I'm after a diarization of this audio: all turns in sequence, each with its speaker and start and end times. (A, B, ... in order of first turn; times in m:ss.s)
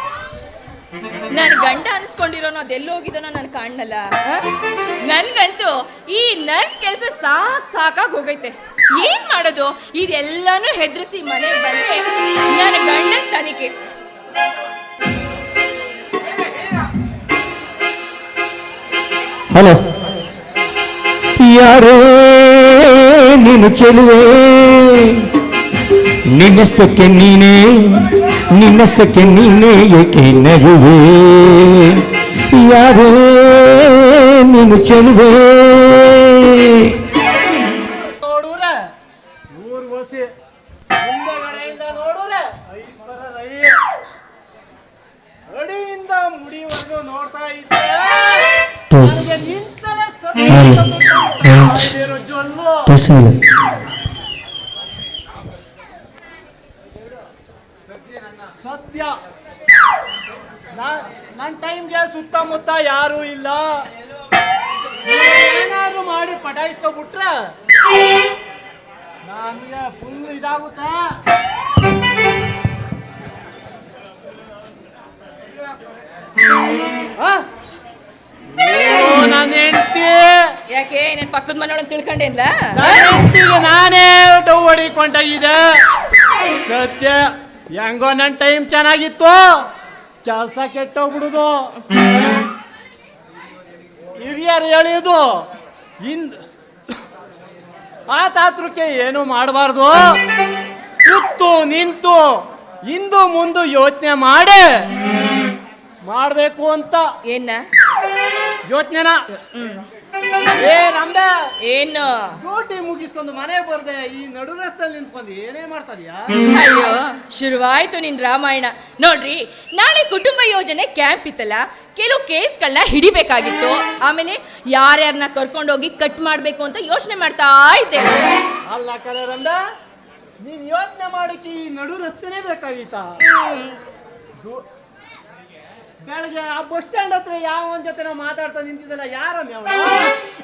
0:01.3-0:13.7 A
0:19.5-0:19.9 B
0:21.4-0:25.3 B
0:26.3-0:37.0 B
0:37.9-0:38.8 C
0:39.5-0:40.3 C
0:41.0-0:43.8 C
0:45.5-0:53.0 C
0:52.9-0:53.4 B
0:58.6-0:59.1 C
1:00.7-1:03.7 C
1:05.0-1:07.4 C
1:09.2-1:11.0 C
1:18.5-1:20.4 C
1:20.7-1:23.2 A
1:22.7-1:25.8 C
1:26.6-1:29.6 C
1:30.2-1:31.7 C
1:34.2-1:35.4 C
1:36.0-1:36.4 C
1:38.1-1:40.2 C
1:41.0-1:44.9 C
1:46.0-1:47.1 C
1:47.3-1:47.6 A
1:48.7-1:49.2 C
1:49.3-1:49.8 A
1:50.6-1:51.4 C
1:51.6-1:52.3 A
1:52.4-1:56.3 C
1:56.4-2:08.2 A
2:08.7-2:09.6 C
2:10.4-2:13.1 C
2:13.2-2:13.8 A
2:16.0-2:20.1 C